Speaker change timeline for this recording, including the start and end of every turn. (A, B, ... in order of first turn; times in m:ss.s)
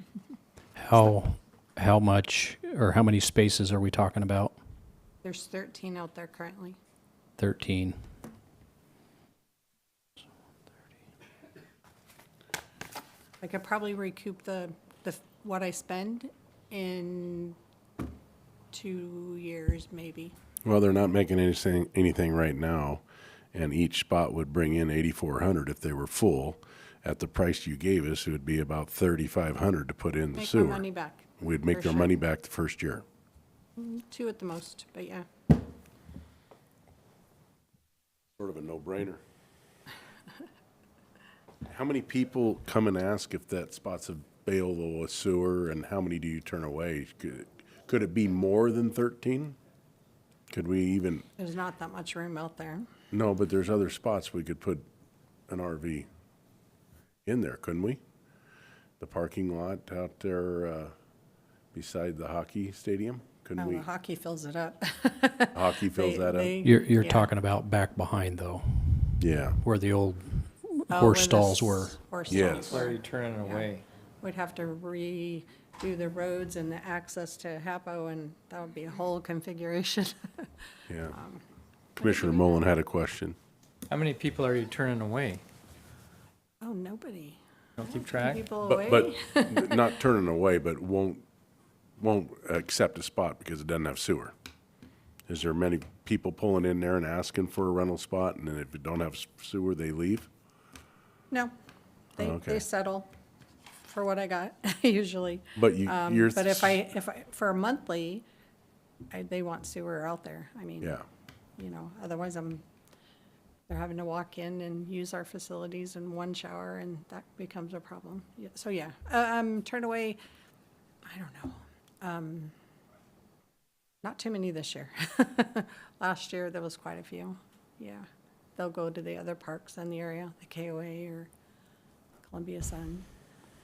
0:00.8-0:04.6 A
0:05.2-0:06.8 B
0:07.4-0:08.0 A
0:13.4-0:17.6 B
0:18.7-0:20.3 B
0:20.7-0:23.0 C
0:23.5-0:30.8 C
0:30.4-0:32.2 B
0:31.4-0:33.0 C
0:33.8-0:35.3 B
0:38.4-0:39.2 C
0:41.7-0:49.6 C
0:50.5-0:51.3 C
0:51.4-0:52.9 B
0:53.1-0:54.8 C
0:55.5-0:56.1 C
0:57.3-0:58.0 C
0:59.0-1:00.9 C
1:01.7-1:03.9 C
1:03.6-1:07.3 B
1:05.5-1:06.6 C
1:06.6-1:12.0 A
1:09.2-1:09.6 C
1:10.9-1:20.5 B
1:12.3-1:12.8 C
1:12.5-1:13.8 D
1:20.9-1:21.1 C
1:21.1-1:21.4 B
1:22.0-1:22.6 B
1:22.0-1:23.4 C
1:23.9-1:25.4 D
1:26.6-1:29.9 B
1:27.8-1:28.5 D
1:28.6-1:31.2 C
1:32.0-1:34.3 C
1:35.3-1:40.3 C
1:42.2-1:43.1 B
1:42.2-1:42.6 C
1:43.8-1:48.2 B
1:45.6-1:46.7 C
1:49.1-1:51.0 B
1:51.6-1:52.6 B
1:53.7-2:00.2 B
2:01.0-2:02.5 B
2:04.0-2:11.3 B
2:12.3-2:13.1 B